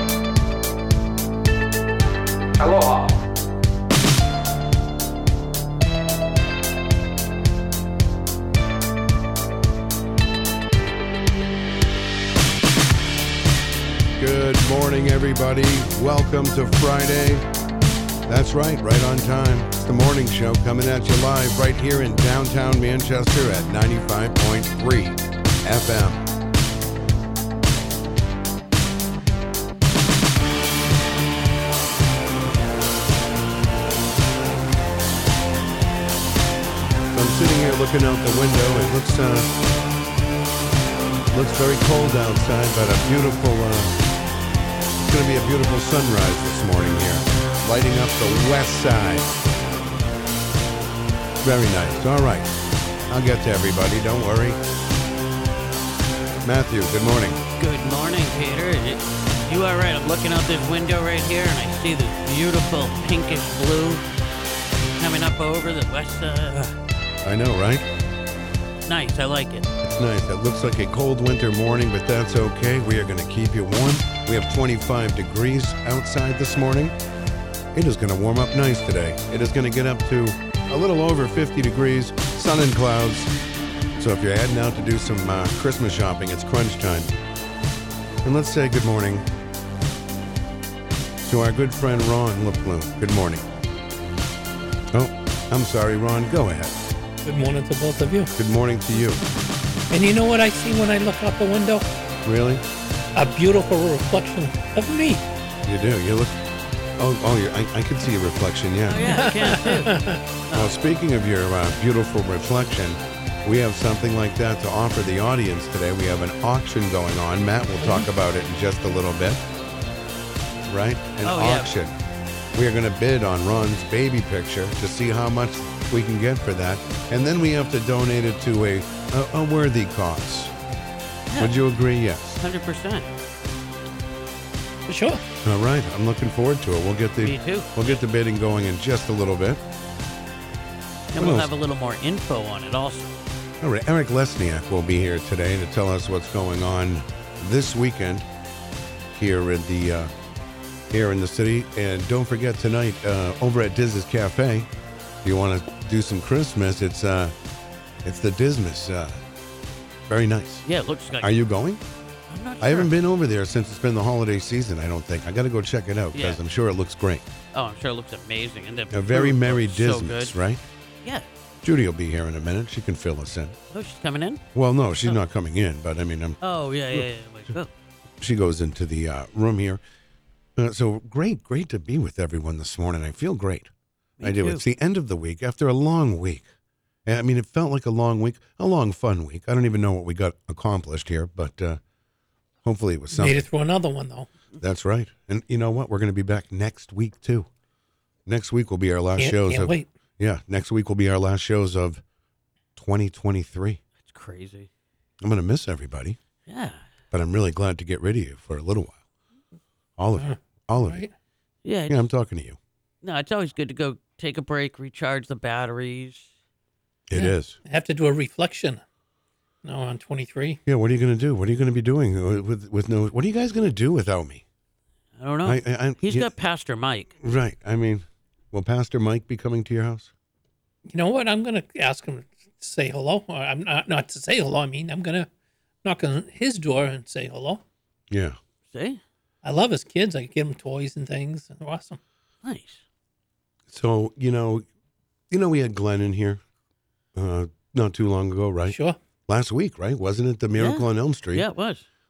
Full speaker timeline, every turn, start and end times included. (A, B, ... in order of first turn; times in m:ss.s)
0:14.2-0:17.4 A
0:18.3-0:26.2 A
0:37.1-0:39.5 A
0:41.3-0:43.9 A
0:45.1-0:49.3 A
0:51.4-0:52.5 A
0:53.1-0:54.6 A
0:56.4-0:57.4 A
0:57.6-1:04.0 B
1:05.0-1:06.8 B
1:07.2-1:07.9 A
1:08.9-1:09.7 B
1:09.8-1:16.9 A
1:17.7-1:23.3 A
1:24.0-1:27.1 A
1:28.2-1:29.2 A
1:31.2-1:33.4 A
1:34.9-1:36.7 A
1:37.2-1:38.3 C
1:38.4-1:39.2 A
1:39.9-1:41.9 C
1:42.2-1:42.6 A
1:43.2-1:45.2 C
1:45.7-1:46.4 A
1:47.0-1:49.3 A
1:48.9-1:50.7 B
1:49.1-1:50.2 C
1:50.5-1:59.4 A
2:00.6-2:01.9 A
2:01.2-2:01.7 B
2:02.6-2:10.5 A
2:11.3-2:11.5 B
2:11.4-2:12.4 A
2:12.4-2:13.1 B
2:14.9-2:15.2 C
2:15.4-2:19.6 A
2:17.2-2:18.0 B
2:21.1-2:23.2 B
2:21.2-2:21.5 A
2:23.6-2:28.2 A
2:29.1-2:30.1 A
2:30.9-2:34.7 A
2:35.2-2:37.3 A
2:38.0-2:39.2 A
2:40.1-2:40.6 A
2:40.6-2:41.3 B
2:41.2-2:41.8 A
2:42.3-2:42.9 B
2:42.6-2:47.2 A
2:46.1-2:46.4 B
2:47.5-2:50.3 B
2:48.9-2:50.6 A
2:51.6-2:53.6 A
2:53.7-2:54.4 B
2:54.5-2:56.4 A
2:56.4-2:57.7 B
2:58.2-2:59.8 A
3:00.6-3:03.7 A
3:04.2-3:04.6 B
3:04.2-3:06.5 A
3:07.0-3:11.8 A
3:12.6-3:13.5 A
3:13.1-3:14.3 C
3:14.6-3:17.5 A
3:18.2-3:22.0 A
3:19.2-3:19.9 C
3:22.8-3:23.8 A
3:24.0-3:24.7 B
3:25.2-3:26.2 A
3:26.5-3:26.8 B
3:27.1-3:29.0 A
3:30.0-3:31.0 A
3:30.2-3:31.1 C
3:31.6-3:32.1 B
3:31.9-3:32.6 A
3:33.0-3:36.3 B
3:37.1-3:37.6 A
3:37.2-3:38.8 C
3:39.6-3:40.6 C
3:40.7-3:44.4 A
3:45.2-3:47.1 B
3:45.4-3:46.3 A
3:47.2-3:50.1 A
3:50.9-3:55.3 C
3:55.8-3:57.6 C
3:58.1-3:58.4 A
3:58.7-3:59.0 B
3:59.4-4:02.0 C
4:02.4-4:02.8 B
4:03.7-4:04.6 A
4:05.3-4:06.4 A
4:07.1-4:11.5 A
4:08.7-4:09.0 C
4:10.6-4:11.9 B